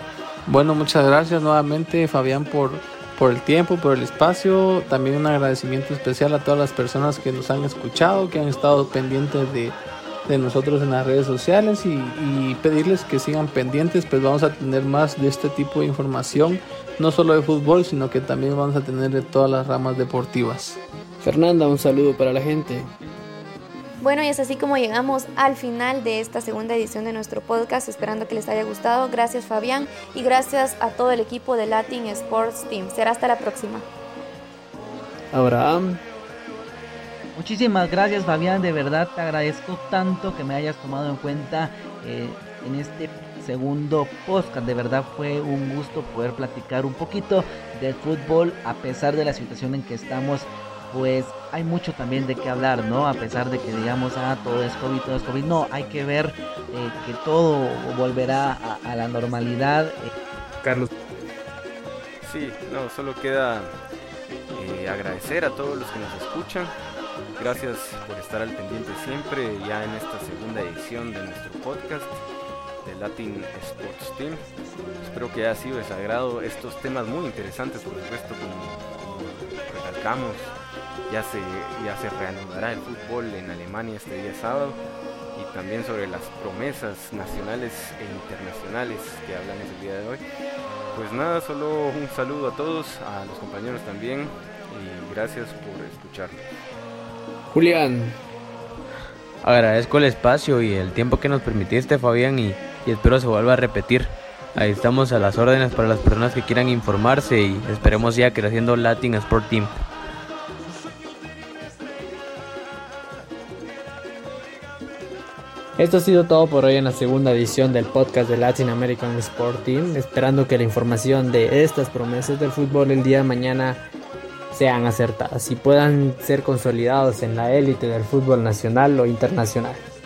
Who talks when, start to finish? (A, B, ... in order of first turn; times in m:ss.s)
0:00.4-0:20.8 A
0:21.2-0:22.9 B
0:24.0-0:33.9 C
0:35.3-0:36.0 B
0:37.3-1:00.1 D
1:00.6-1:00.9 B
1:02.2-1:03.7 E
1:04.5-1:06.7 E
1:07.4-1:12.2 E
1:12.8-1:14.4 E
1:15.0-1:20.5 E
1:21.1-1:24.8 E
1:25.3-1:30.2 E
1:30.9-1:36.4 E
1:37.5-1:38.2 B
1:39.4-1:49.8 F
1:55.8-2:03.8 B
2:04.5-2:09.8 B